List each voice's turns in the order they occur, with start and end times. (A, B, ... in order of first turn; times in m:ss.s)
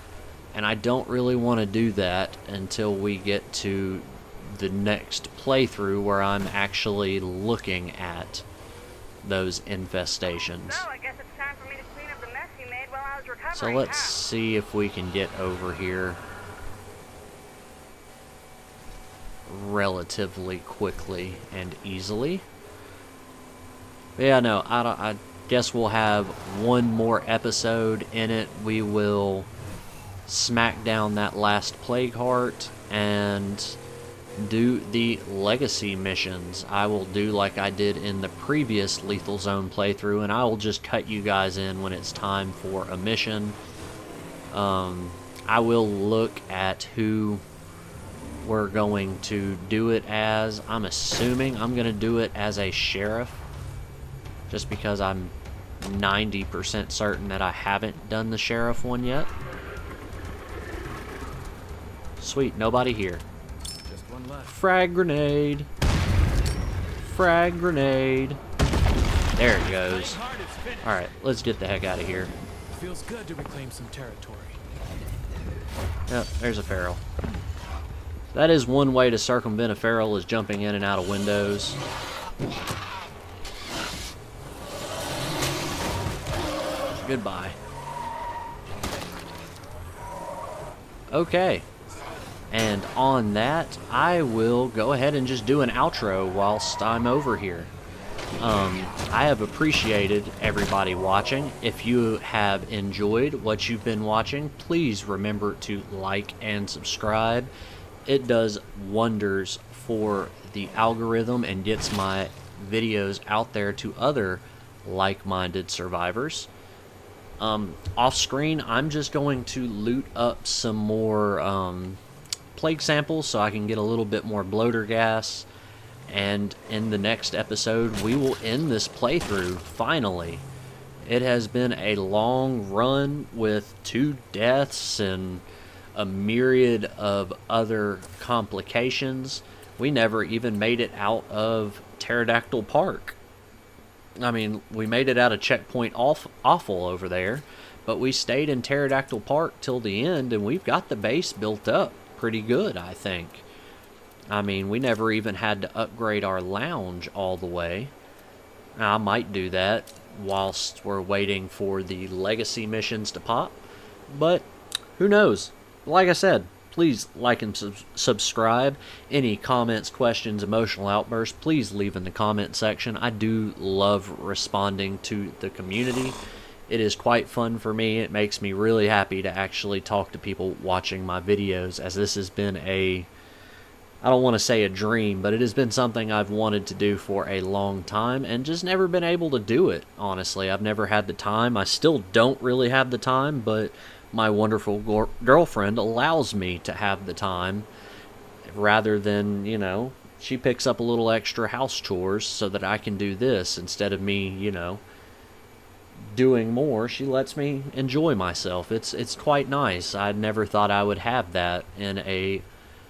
0:00.5-0:08.4 A
0:09.2-0:10.9 A
0:10.8-0:14.2 B
0:13.5-0:16.2 A
0:19.5-0:22.4 A
0:24.2-0:29.5 A
0:30.3-0:33.8 A
0:34.4-0:43.6 A
0:44.5-0:47.4 A
0:48.4-0:53.4 A
0:54.5-0:59.3 A
1:02.2-1:03.2 A
1:03.8-1:04.6 C
1:04.4-1:05.7 A
1:07.0-1:08.4 A
1:09.3-1:10.2 A
1:09.4-1:11.0 C
1:10.8-1:12.3 A
1:12.7-1:14.6 C
1:16.1-1:17.0 A
1:18.3-1:21.8 A
1:26.9-1:27.6 A
1:31.1-1:31.6 A
1:32.5-1:37.7 A
1:38.4-1:47.5 A
1:48.0-1:56.5 A
1:57.4-2:02.0 A
2:02.5-2:05.5 A
2:06.1-2:10.4 A
2:11.0-2:15.4 A
2:15.9-2:23.2 A
2:24.2-2:33.4 A
2:34.3-2:37.9 A
2:38.8-3:03.1 A
3:04.0-3:17.7 A
3:18.4-3:24.8 A
3:26.1-3:32.4 A